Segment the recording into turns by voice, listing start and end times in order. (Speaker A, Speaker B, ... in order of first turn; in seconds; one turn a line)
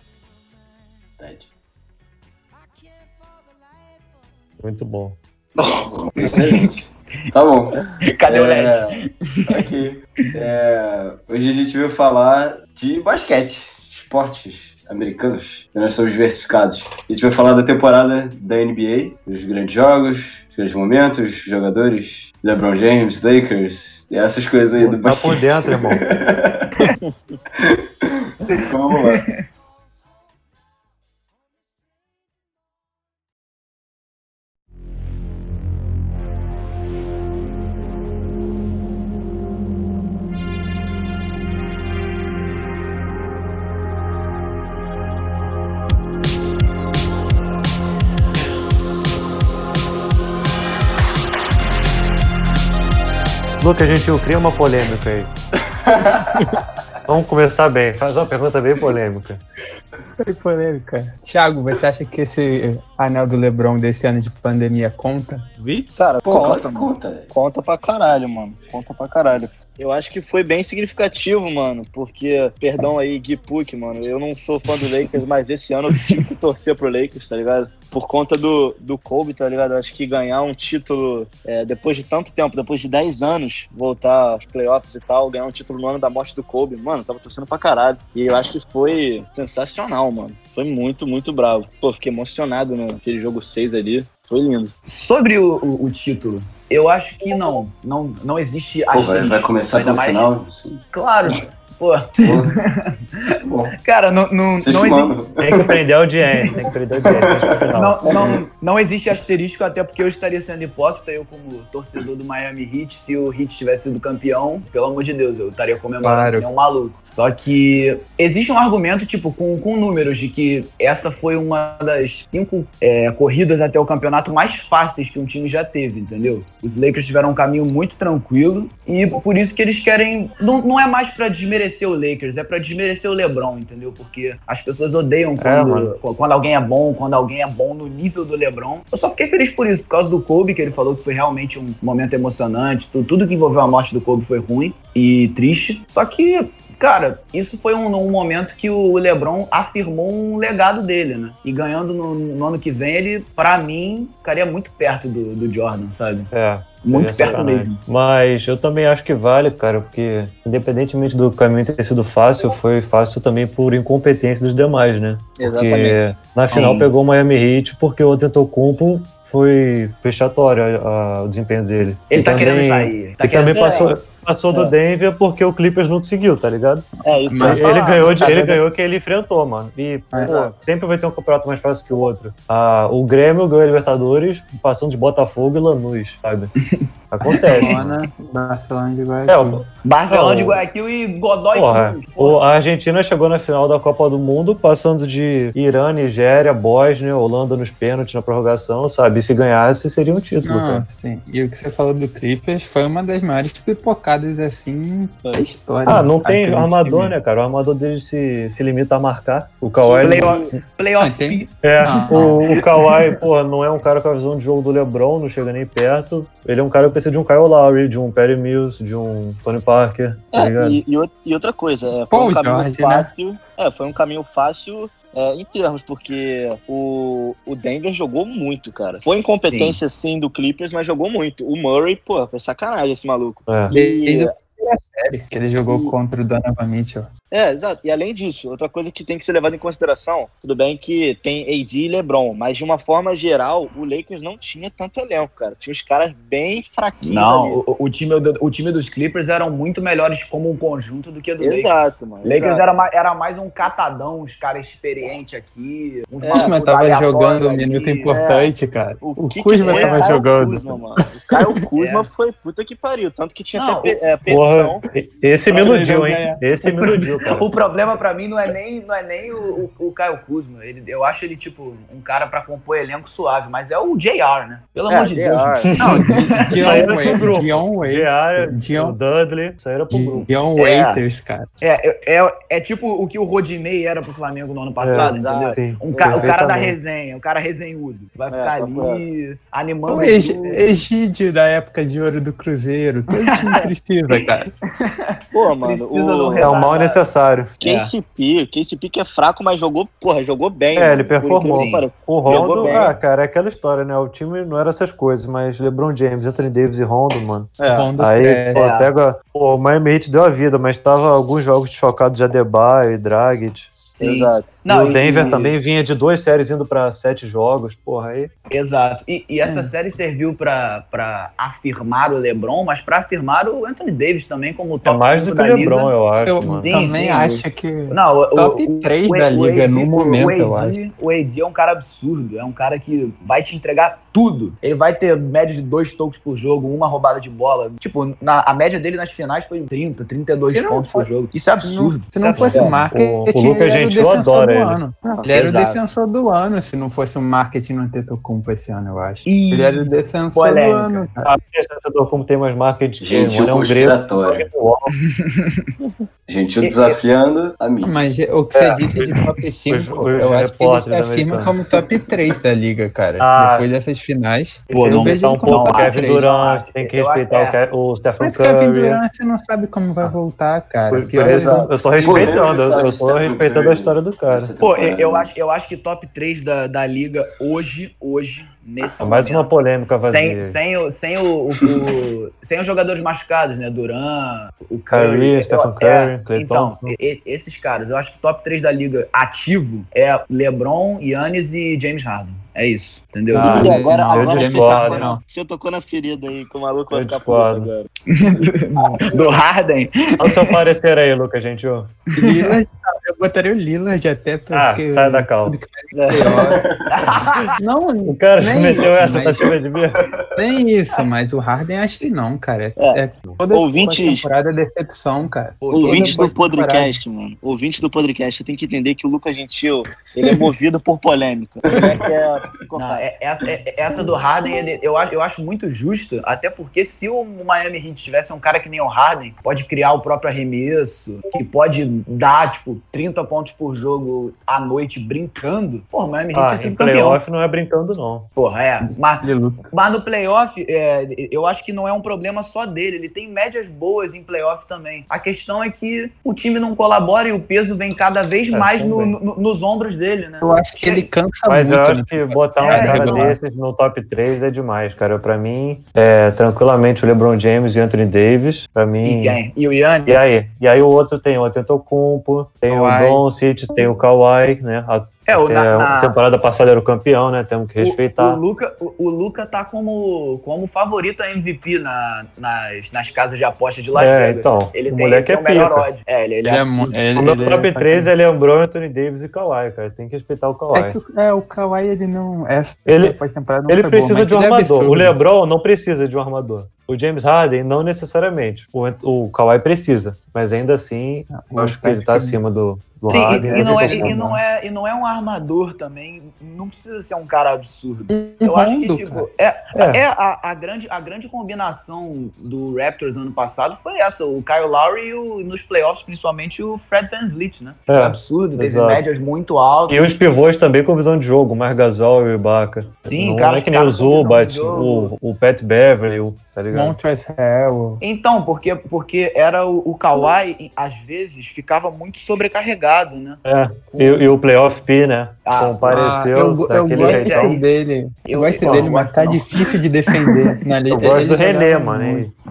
Speaker A: 1.2-1.4
Speaker B: 4.6-5.2
Speaker A: 5.8-26.7
Speaker C: 6.2-6.8
Speaker C: 8.0-9.7
Speaker B: 24.8-26.0
Speaker A: 27.7-29.2
Speaker B: 53.6-55.3
Speaker A: 55.8-56.6
Speaker B: 57.0-59.4
Speaker D: 60.2-65.5
Speaker E: 65.6-94.7
Speaker A: 66.2-67.3
Speaker C: 94.8-100.3
Speaker A: 98.9-100.8
Speaker C: 100.9-102.5
Speaker A: 102.2-102.5
Speaker A: 103.4-103.7
Speaker C: 103.8-105.2
Speaker A: 104.6-105.7
Speaker B: 105.4-108.0
Speaker A: 107.0-107.6
Speaker C: 107.7-156.3
Speaker B: 116.0-116.3
Speaker D: 116.0-116.4
Speaker B: 135.4-136.0
Speaker B: 156.3-176.9
Speaker C: 156.8-157.8
Speaker E: 165.4-166.0
Speaker D: 166.5-166.9
Speaker C: 166.5-166.8
Speaker C: 172.1-173.9
Speaker E: 173.5-173.9
Speaker E: 177.0-178.5
Speaker D: 177.3-178.6
Speaker B: 177.4-186.5
Speaker E: 180.2-180.5
Speaker B: 187.1-188.0
Speaker C: 187.2-187.8
Speaker D: 187.4-189.6
Speaker B: 189.3-190.6
Speaker C: 189.8-192.4
Speaker B: 191.5-200.8
Speaker D: 200.4-207.2
Speaker B: 205.8-210.4
Speaker C: 209.8-211.5
Speaker D: 211.0-212.5
Speaker B: 211.6-220.8
Speaker C: 212.1-212.6
Speaker E: 220.3-234.3
Speaker D: 222.1-223.1
Speaker C: 229.5-229.8
Speaker B: 233.5-233.7
Speaker D: 233.7-237.1
Speaker E: 235.7-235.9
Speaker E: 237.3-247.6
Speaker C: 247.0-258.4
Speaker E: 251.4-252.6
Speaker E: 256.2-256.5
Speaker D: 256.3-261.5
Speaker E: 258.1-264.8
Speaker C: 259.6-260.2
Speaker C: 261.8-262.1
Speaker C: 263.5-264.1
Speaker B: 264.2-267.5
Speaker D: 265.5-266.4
Speaker C: 266.6-277.4
Speaker E: 274.9-275.7
Speaker B: 275.7-280.3
Speaker D: 275.8-279.0
Speaker D: 279.9-281.5
Speaker C: 280.6-281.0
Speaker C: 281.6-290.6
Speaker B: 284.8-286.8
Speaker E: 284.9-286.3
Speaker E: 288.3-289.0
Speaker D: 289.9-294.5
Speaker C: 293.3-293.6
Speaker C: 294.8-297.0
Speaker E: 295.3-296.5
Speaker B: 296.3-297.5
Speaker E: 297.6-302.9
Speaker C: 297.6-297.9
Speaker B: 300.7-313.9
Speaker C: 301.3-302.9
Speaker E: 307.6-307.9
Speaker D: 307.6-308.7
Speaker C: 308.5-308.9
Speaker C: 313.9-315.6
Speaker E: 314.0-314.6
Speaker B: 314.6-318.3
Speaker C: 318.5-325.9
Speaker D: 319.4-319.7
Speaker B: 324.8-326.9
Speaker D: 326.1-330.8
Speaker C: 326.6-342.8
Speaker D: 340.5-341.1
Speaker D: 341.6-351.3
Speaker B: 342.4-344.8
Speaker C: 345.3-345.9
Speaker C: 349.2-351.1
Speaker B: 351.2-354.9
Speaker A: 353.0-354.5
Speaker C: 355.1-355.7
Speaker A: 356.3-357.9
Speaker C: 356.6-357.0
Speaker D: 357.8-366.2
Speaker B: 358.5-361.6
Speaker B: 363.2-363.7
Speaker B: 364.7-369.0
Speaker C: 364.7-367.6
Speaker D: 368.2-372.4
Speaker B: 370.9-374.5
Speaker E: 371.2-371.7
Speaker A: 372.0-375.3
Speaker C: 374.6-379.5
Speaker B: 379.0-380.6
Speaker C: 380.0-393.8
Speaker B: 384.9-386.9
Speaker D: 393.3-395.2
Speaker B: 393.4-395.2
Speaker E: 393.4-397.9
Speaker B: 396.9-397.7
Speaker C: 398.1-400.6
Speaker B: 400.2-402.0
Speaker D: 402.1-406.6
Speaker C: 402.2-402.6
Speaker B: 404.5-405.6
Speaker E: 405.9-406.5
Speaker A: 406.3-406.9
Speaker C: 406.9-407.6
Speaker D: 407.6-409.5
Speaker B: 408.0-410.0
Speaker D: 410.3-417.0
Speaker E: 412.8-414.3
Speaker C: 415.6-416.3
Speaker E: 415.7-423.1
Speaker C: 422.8-437.2
Speaker B: 436.3-438.3
Speaker C: 438.4-451.1
Speaker D: 439.2-439.6
Speaker B: 448.5-449.1
Speaker D: 450.4-453.4
Speaker B: 451.4-459.4
Speaker C: 452.6-453.3
Speaker C: 459.0-460.3
Speaker B: 460.1-468.4
Speaker D: 462.7-463.2
Speaker C: 465.3-466.2
Speaker C: 467.8-477.0
Speaker B: 473.9-475.9
Speaker D: 476.4-478.1
Speaker B: 477.1-481.0
Speaker D: 480.7-485.1
Speaker B: 482.9-494.2
Speaker D: 491.3-492.4
Speaker D: 493.1-494.4
Speaker C: 493.1-510.2
Speaker D: 498.1-499.2
Speaker B: 499.7-500.0
Speaker B: 507.9-509.0
Speaker B: 509.9-517.0
Speaker C: 513.0-515.1
Speaker D: 516.7-518.0
Speaker C: 518.0-524.3
Speaker B: 523.4-527.6
Speaker C: 525.5-526.0
Speaker D: 525.9-532.3
Speaker C: 526.9-527.6
Speaker C: 528.2-529.6
Speaker B: 528.6-528.9
Speaker B: 530.9-532.3